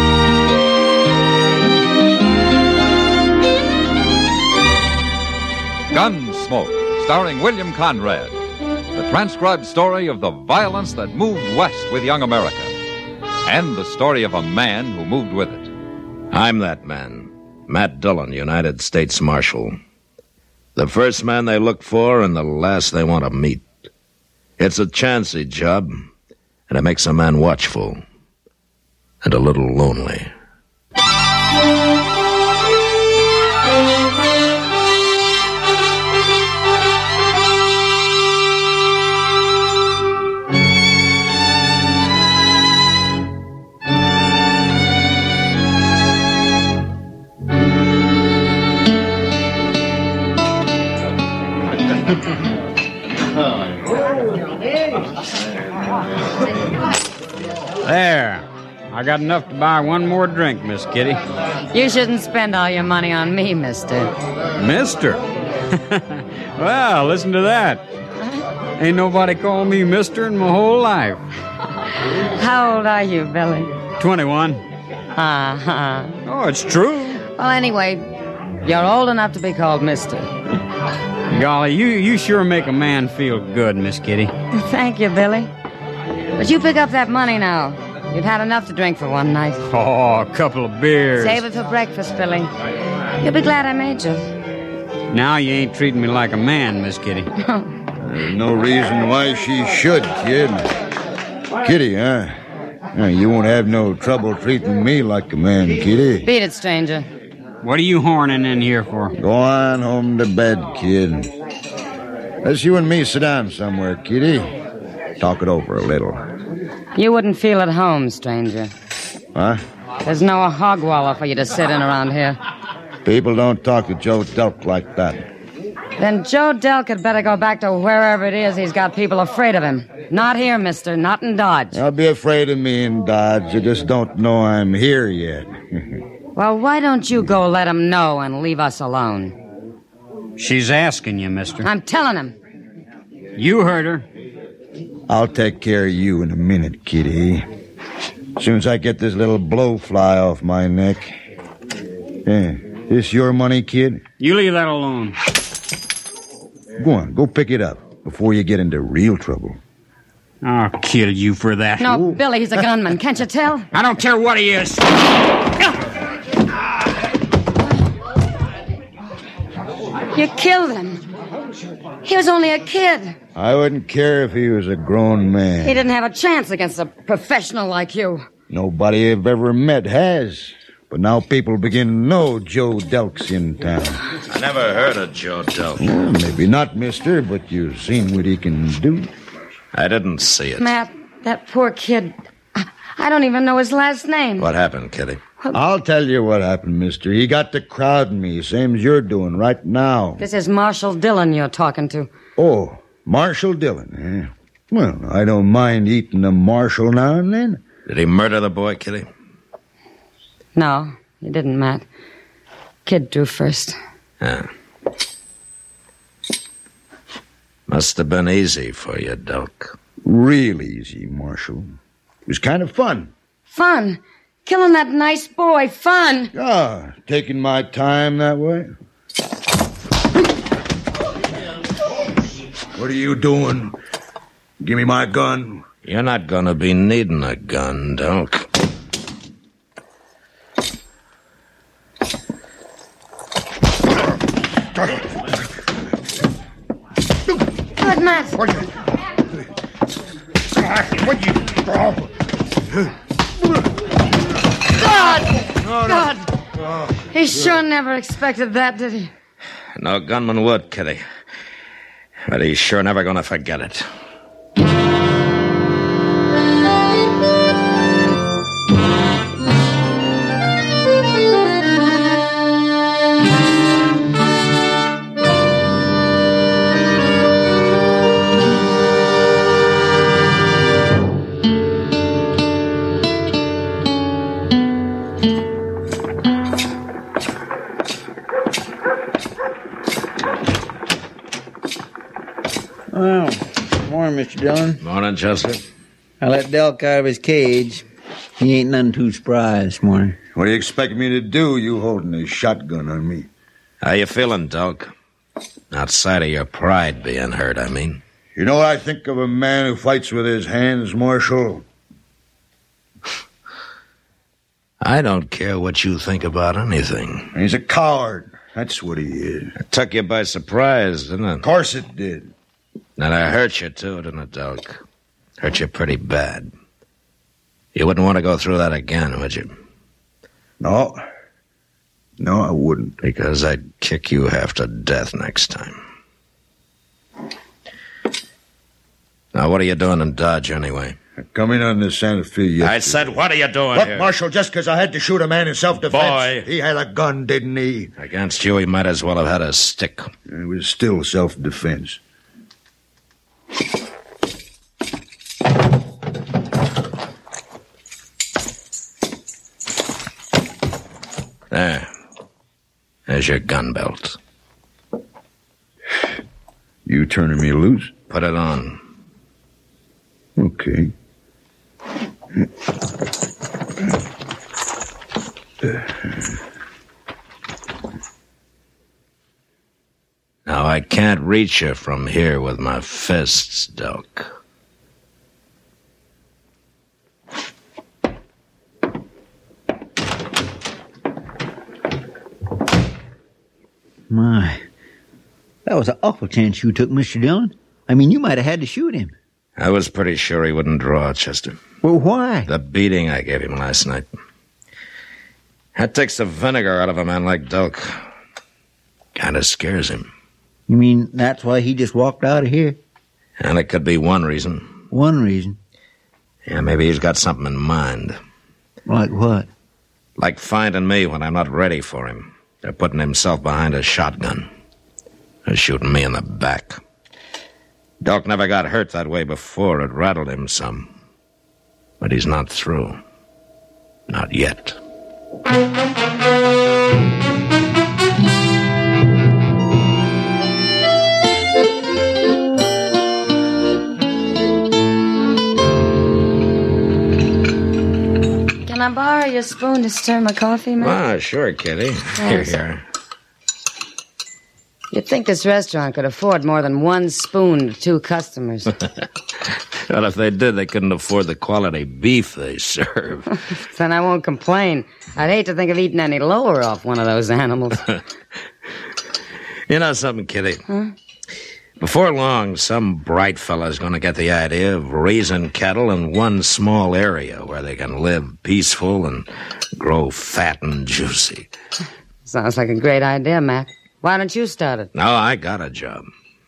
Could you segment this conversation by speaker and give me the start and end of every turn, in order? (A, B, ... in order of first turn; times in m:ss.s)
0:05.9-0:08.4 A
0:09.0-0:12.7 A
0:13.5-0:15.7 A
0:16.3-0:19.8 B
0:20.8-0:23.7 B
0:24.6-0:26.1 B
0:26.7-0:28.0 B
0:29.2-0:30.3 B
0:57.8-1:01.2 C
1:01.7-1:04.1 D
1:04.6-1:05.2 C
1:05.8-1:07.8 C
1:08.8-1:11.2 C
1:12.2-1:13.7 D
1:14.0-1:14.6 C
1:15.2-1:16.2 D
1:16.3-1:17.2 C
1:17.4-1:18.0 D
1:18.6-1:20.3 D
1:21.3-1:24.3 C
1:24.5-1:25.5 D
1:26.4-1:29.6 D
1:29.7-1:31.4 C
1:31.2-1:32.5 D
1:33.2-1:34.2 D
1:35.1-1:37.3 C
1:37.4-1:37.7 D
1:38.0-1:40.7 E
1:41.6-1:42.4 E
1:42.9-1:46.3 E
1:46.2-1:47.1 D
1:47.6-1:49.1 C
1:49.2-1:51.3 E
1:52.4-1:54.5 E
1:55.2-1:56.2 E
1:57.0-1:58.7 D
1:59.4-1:59.6 E
2:00.0-2:02.4 D
2:03.0-2:05.2 E
2:06.0-2:11.8 D
2:11.7-2:15.5 E
2:16.4-2:19.4 D
2:20.4-2:21.7 C
2:21.6-2:22.4 D
2:23.4-2:24.1 C
2:25.1-2:27.5 E
2:28.4-2:31.2 E
2:32.3-2:34.0 E
2:34.2-2:35.2 C
2:36.8-2:39.6 E
2:40.4-2:42.0 C
2:41.8-2:43.7 D
2:43.7-2:44.9 C
2:50.1-2:51.0 D
2:52.0-2:53.2 D
2:53.4-2:55.9 E
2:55.6-2:58.3 D
2:58.5-3:04.0 E
3:04.3-3:05.9 B
3:05.8-3:09.1 E
3:09.7-3:10.6 B
3:10.6-3:14.5 D
3:14.4-3:15.2 B
3:15.5-3:20.2 E
3:20.2-3:22.1 D
3:22.4-3:27.6 E
3:27.9-3:29.1 B
3:30.6-3:31.9 D
3:32.9-3:33.8 D
3:34.2-3:34.5 B
3:37.7-3:39.8 B
3:40.0-3:41.8 E
3:42.3-3:43.1 E
3:43.5-3:46.3 D
3:46.3-3:48.7 E
3:52.8-3:53.8 E
3:54.6-3:55.6 E
3:55.8-3:58.4 B
4:07.8-4:08.4 D
4:10.7-4:12.1 E
4:14.9-4:16.2 D
4:15.6-4:16.1 E
4:16.7-4:17.6 E
4:17.1-4:19.1 D
4:19.8-4:21.0 B
4:22.3-4:23.9 B
4:52.9-4:54.8 F
4:54.8-4:55.6 B
4:56.2-4:57.8 F
4:58.4-5:00.2 F
5:00.3-5:03.3 E
5:03.8-5:04.9 B
5:05.7-5:08.0 B
5:08.4-5:11.6 E
5:14.8-5:17.3 B
5:17.3-5:19.5 E
5:19.6-5:21.4 B
5:21.4-5:22.3 E
5:23.0-5:24.8 B
5:25.4-5:26.5 B
5:27.8-5:29.5 B
5:30.6-5:31.0 E
5:32.2-5:33.0 E
5:33.0-5:35.8 B
5:39.3-5:41.0 B
5:41.2-5:47.9 E
5:42.6-5:44.1 B
5:45.9-5:46.5 B
5:48.0-5:50.1 B
5:50.3-5:52.0 E
6:01.5-6:01.9 B
6:03.1-6:04.2 B
6:06.9-6:08.0 E
6:08.1-6:08.8 B
6:10.4-6:10.9 E
6:20.5-6:24.3 B
6:34.1-6:34.6 F
6:35.7-6:39.1 F
6:39.6-6:41.6 B
6:41.8-6:42.5 F
6:42.5-6:44.1 B
6:45.8-6:48.0 B
6:49.2-6:50.1 B
6:50.7-6:52.8 F
6:53.4-6:54.7 B
6:54.9-6:55.6 F
6:56.5-6:58.2 B
6:58.9-6:59.5 F
7:00.2-7:04.5 B
7:05.5-7:06.8 B
7:08.0-7:10.9 B
7:12.0-7:13.0 B
7:14.1-7:14.8 B
7:28.7-7:31.0 D
7:30.8-7:32.8 B
7:32.2-7:32.6 D
7:34.9-7:38.7 D
7:39.9-7:43.2 B
7:43.6-7:47.8 D
7:49.7-7:50.6 B
7:51.8-8:01.5 B
8:02.2-8:04.9 D
8:05.0-8:06.1 B